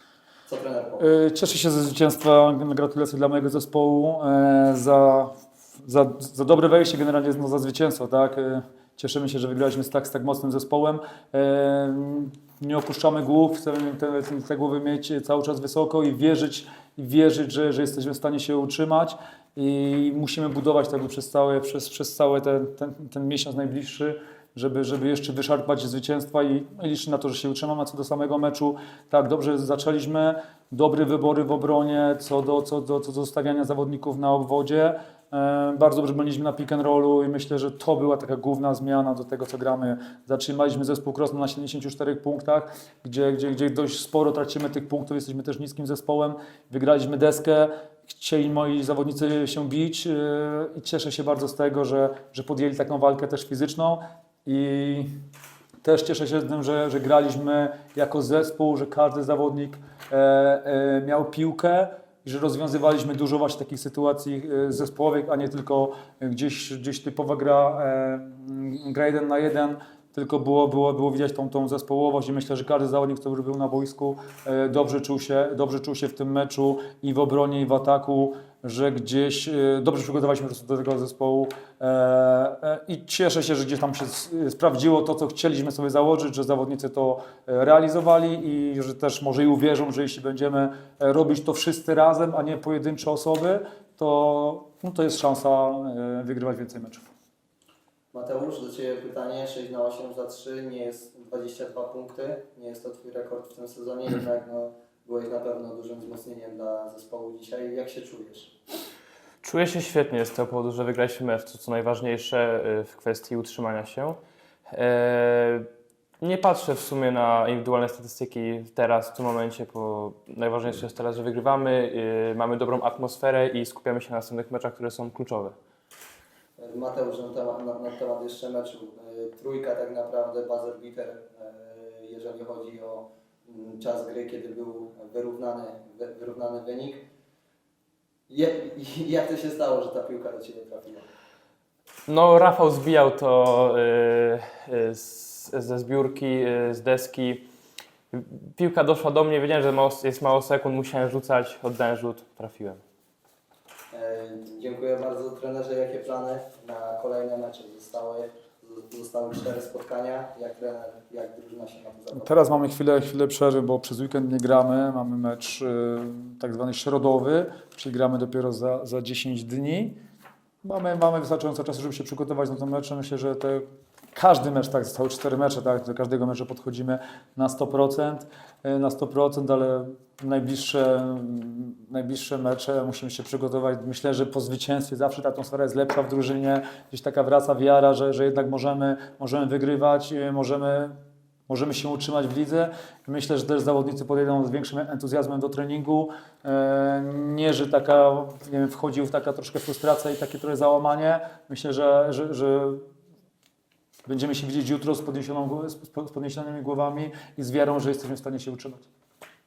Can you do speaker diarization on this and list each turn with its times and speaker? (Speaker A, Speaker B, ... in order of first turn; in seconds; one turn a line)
Speaker A: 0.5-1.1
Speaker B: 1.0-55.1
Speaker B: 55.8-97.1
Speaker A: 98.1-108.5
Speaker C: 109.4-115.7
Speaker C: 116.2-125.5
Speaker A: 126.6-137.0
Speaker A: 138.3-141.1
Speaker C: 142.1-147.4
Speaker C: 148.1-152.8
Speaker A: 153.9-162.3
Speaker B: 162.2-170.0
Speaker B: 170.6-190.9
Speaker B: 191.5-202.8
Speaker B: 204.1-208.9